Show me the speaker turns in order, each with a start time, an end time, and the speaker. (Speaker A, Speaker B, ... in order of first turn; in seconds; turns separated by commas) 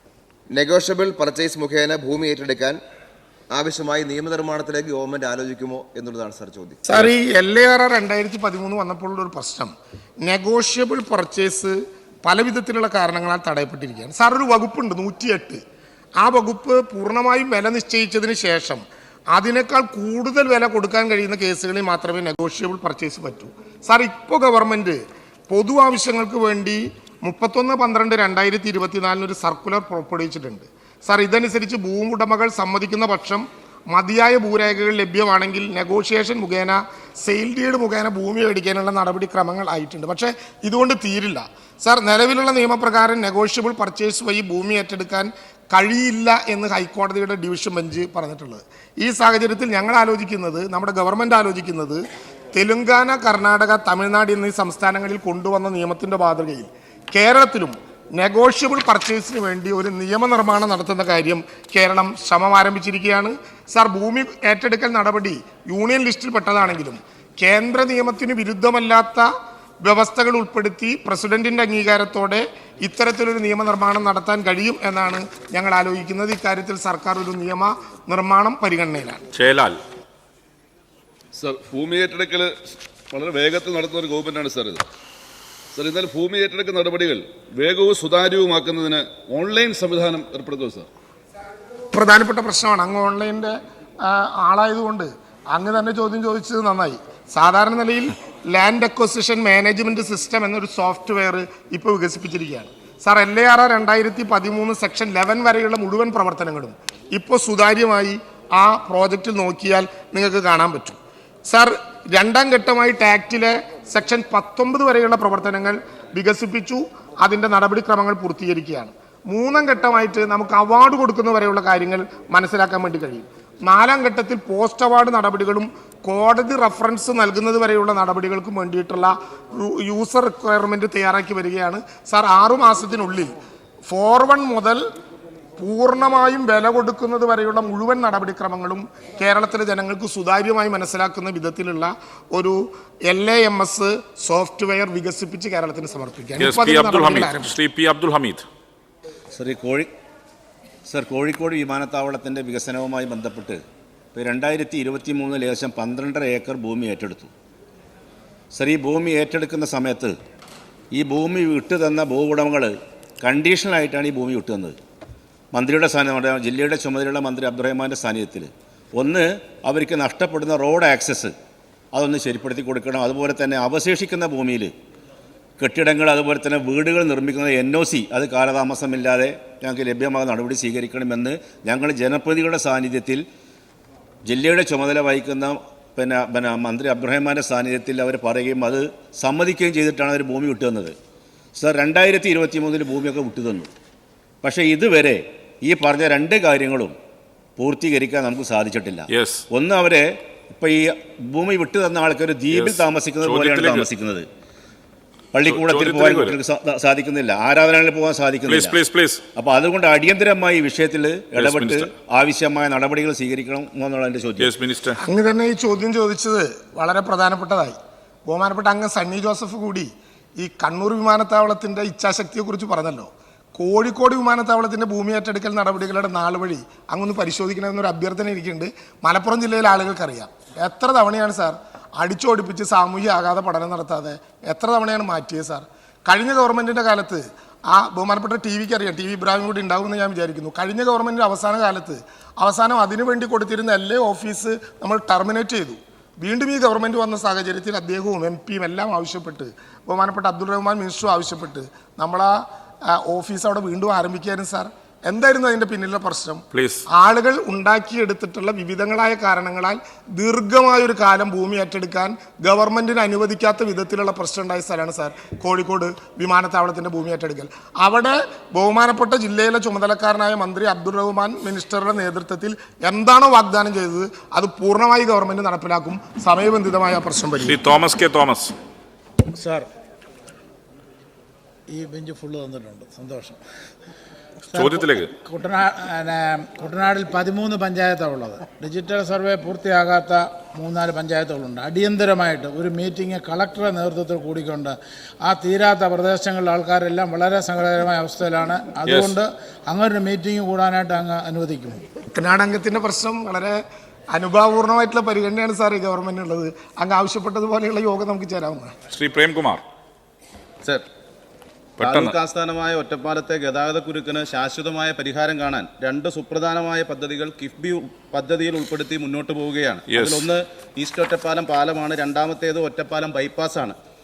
Speaker A: 0.5-2.8, Speaker A: 3.5-6.8, Speaker B: 6.9-15.6, Speaker B: 16.2-69.3, Speaker B: 69.8-79.2, Speaker C: 79.3-79.8, Speaker D: 81.3-84.8, Speaker D: 85.7-90.9, Speaker B: 91.9-133.3, Speaker B: 133.9-134.8, Speaker B: 135.6-147.6, Speaker C: 146.4-148.4, Speaker E: 149.4-149.9, Speaker E: 150.9-153.6, Speaker E: 154.1-157.3, Speaker E: 158.5-160.1, Speaker E: 161.0-162.7, Speaker E: 163.2-164.7, Speaker E: 165.5-171.3, Speaker E: 171.9-174.7, Speaker E: 175.6-183.2, Speaker E: 184.3-190.9, Speaker E: 191.6-193.7, Speaker E: 194.4-196.9, Speaker E: 197.6-204.2, Speaker C: 199.1-199.4, Speaker C: 202.5-203.9, Speaker E: 205.3-208.7, Speaker C: 205.4-206.4, Speaker C: 208.5-209.2, Speaker E: 209.3-214.5, Speaker C: 211.4-211.9, Speaker C: 214.4-215.0, Speaker B: 215.0-277.6, Speaker C: 256.5-256.8, Speaker C: 277.4-278.5, Speaker F: 279.4-279.7, Speaker F: 281.7-283.4, Speaker C: 284.5-285.1, Speaker F: 284.5-301.8, Speaker C: 298.9-299.1, Speaker B: 302.1-308.8, Speaker C: 308.9-309.6, Speaker C: 311.8-312.1, Speaker G: 311.8-323.8, Speaker C: 319.9-320.3